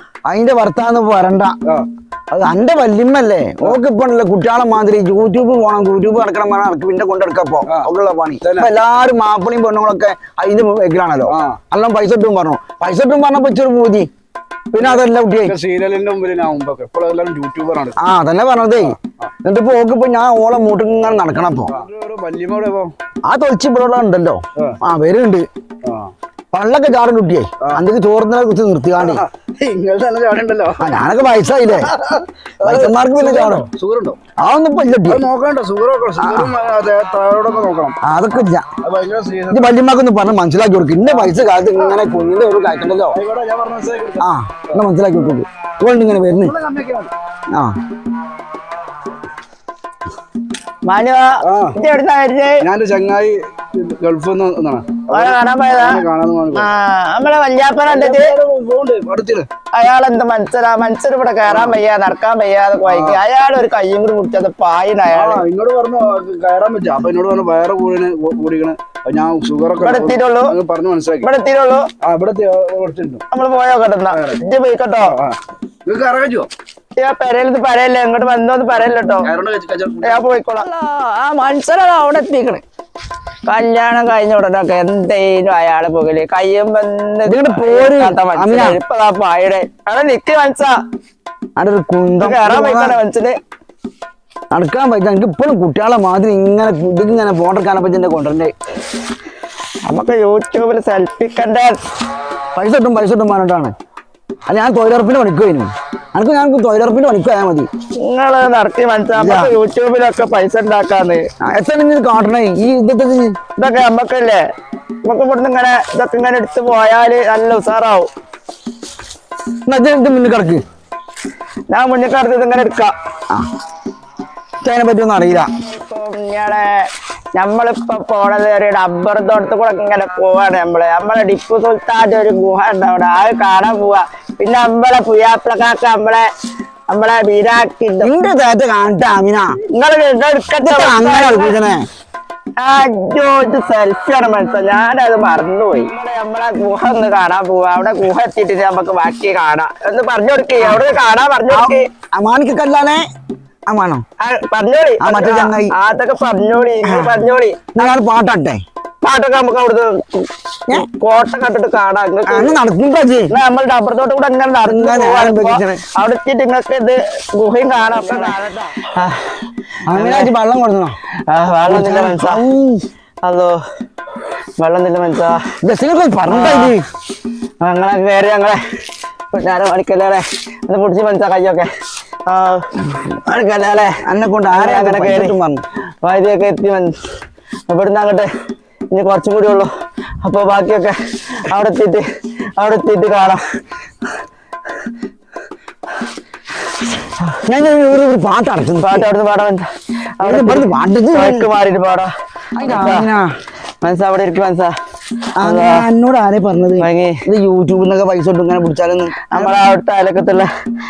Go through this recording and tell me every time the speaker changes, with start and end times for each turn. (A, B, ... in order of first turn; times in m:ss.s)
0:00.3-0:01.6 A
0:02.3-0:14.1 A
0:08.4-0:08.7 B
0:11.3-0:11.6 B
0:14.7-0:15.6 A
0:14.8-0:18.0 B
0:18.0-0:21.7 A
0:21.7-0:22.9 B
0:23.2-0:25.4 A
0:25.8-0:26.1 B
0:26.5-0:29.2 A
0:29.0-0:30.9 B
0:30.8-0:31.9 A
0:32.0-0:34.2 B
0:32.6-0:33.7 A
0:34.4-0:35.2 A
0:35.1-0:38.0 B
0:36.2-0:36.5 A
0:38.0-0:38.7 A
0:38.8-0:39.7 B
0:39.5-0:43.2 A
0:41.1-0:41.3 B
0:43.1-0:44.3 B
0:44.2-0:46.5 A
0:46.5-0:47.1 B
0:50.8-0:52.6 C
0:51.4-0:51.8 B
0:52.6-0:56.7 B
0:55.1-0:58.3 C
0:57.9-0:59.5 B
0:59.7-1:05.4 C
1:01.5-1:01.8 B
1:02.8-1:03.2 B
1:05.1-1:11.3 B
1:09.8-1:10.5 C
1:11.2-1:11.9 C
1:12.0-1:13.2 B
1:13.3-1:15.2 C
1:14.1-1:14.4 B
1:15.1-1:16.5 B
1:17.0-1:19.3 C
1:18.9-1:20.2 B
1:20.0-1:22.6 C
1:23.4-1:30.8 C
1:27.2-1:28.8 A
1:31.6-1:33.0 A
1:32.2-1:33.4 C
1:34.5-1:38.5 A
1:39.8-1:41.8 C
1:42.5-1:43.7 A
1:44.4-1:47.7 A
1:48.0-1:51.2 C
1:49.1-1:49.5 A
1:51.4-1:53.4 A
1:53.6-1:54.4 C
1:55.0-1:58.1 C
1:59.6-2:00.6 A
2:01.7-2:02.9 C
2:04.6-2:05.5 A
2:05.6-2:16.3 C
2:16.9-2:18.1 C
2:18.0-2:19.6 A
2:19.7-2:21.6 C
2:20.6-2:21.8 A
2:22.6-2:31.9 C
2:30.6-2:30.8 A
2:31.5-2:33.0 A
2:33.7-2:34.0 A
2:34.2-2:37.9 C
2:35.0-2:35.7 A
2:36.8-2:37.2 A
2:37.8-2:38.6 A
2:39.0-2:42.6 C
2:42.3-2:43.3 A
2:43.3-2:49.4 C
2:44.6-2:45.8 A
2:47.9-2:48.9 A
2:49.9-2:51.0 A
2:49.9-2:50.3 C
2:51.3-2:52.4 C
2:51.6-2:52.8 A
2:53.2-2:53.6 C
2:54.6-2:55.4 C
2:55.6-2:56.8 A
2:56.3-2:56.8 C
2:57.6-2:58.8 C
2:59.3-3:01.7 C
3:02.2-3:05.3 C
3:04.0-3:05.6 A
3:06.0-3:07.0 C
3:07.7-3:08.3 C
3:08.9-3:09.7 C
3:10.2-3:13.4 C
3:17.4-3:19.1 A
3:18.8-3:19.7 C
3:20.2-3:23.1 C
3:20.2-3:21.5 A
3:22.6-3:23.3 A
3:23.8-3:24.7 C
3:25.4-3:29.6 A
3:25.4-3:25.9 C
3:26.8-3:27.2 C
3:29.3-3:30.5 C